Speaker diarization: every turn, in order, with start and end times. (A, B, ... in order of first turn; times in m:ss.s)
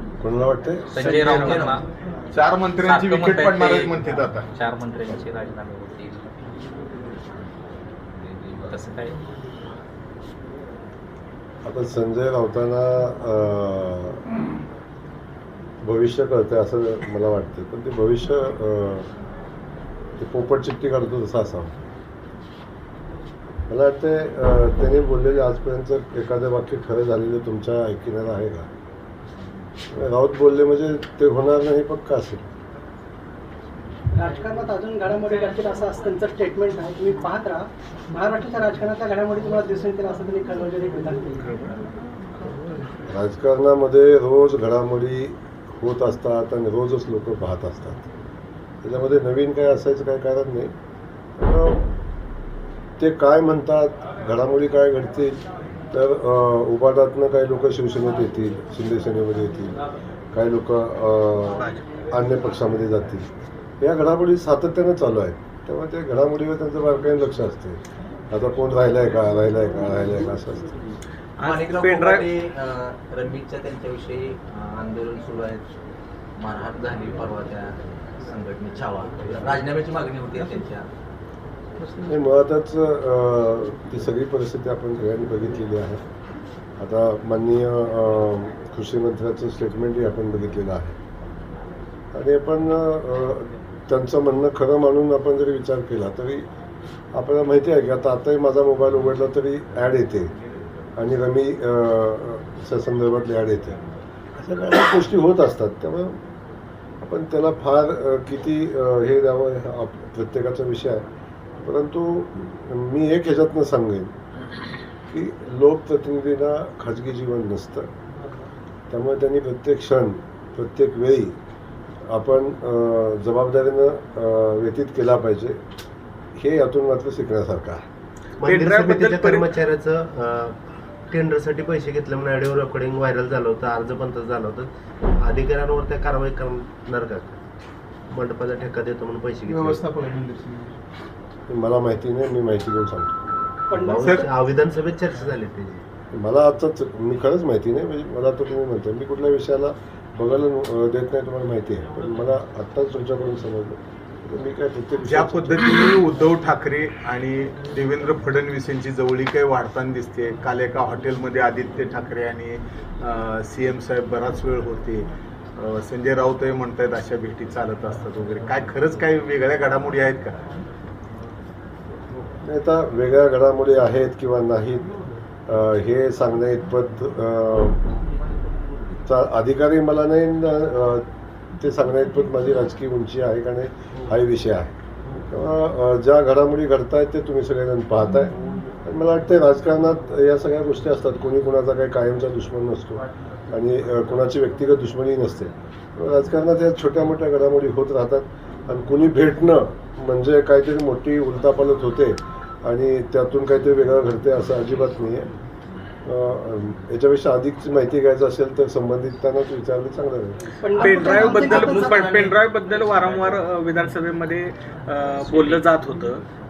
0:00.2-0:00.9 A
0:00.9-0:01.8 B
0:01.2-0:01.6 C
0:01.3-0:01.7 D
0:02.3-0:04.5 E
0:02.8-0:06.3 B
0:08.7-0:09.2 B
0:11.6-0:14.2 A
0:15.8-0:19.1 A
0:20.2-0:21.8 A
0:23.7-0:28.7 A
0:29.9-0:32.4 A
0:34.1-0:41.7 F
0:43.1-0:48.0 A
0:48.8-0:50.7 A
0:51.4-0:51.9 A
0:53.0-0:55.4 A
0:55.9-0:59.8 A
1:00.3-1:03.3 A
1:03.8-1:07.8 A
1:08.3-1:10.7 A
1:11.4-1:12.3 C
1:11.4-1:15.6 D
1:16.4-1:20.9 D
1:21.9-1:26.0 A
1:26.8-1:31.0 A
1:32.1-1:36.4 A
1:37.1-1:40.3 A
1:41.0-1:43.8 A
1:44.4-1:46.2 A
1:47.0-1:51.0 A
1:51.6-1:54.1 A
1:55.1-1:57.9 A
1:58.9-2:01.4 A
2:02.1-2:05.6 A
2:06.4-2:07.8 A
2:08.4-2:10.6 G
2:08.5-2:09.5 C
2:11.1-2:17.4 G
2:18.1-2:19.8 G
2:21.5-2:23.2 A
2:23.7-2:24.3 F
2:23.7-2:25.8 G
2:26.1-2:36.0 A
2:35.0-2:50.4 E
2:52.4-2:54.9 A
2:55.5-2:57.8 A
2:59.1-3:01.0 A
3:01.6-3:04.7 A
3:05.3-3:25.3 A
3:26.0-3:30.4 A
3:30.6-3:32.0 F
3:30.8-3:36.2 C
3:30.8-3:32.4 D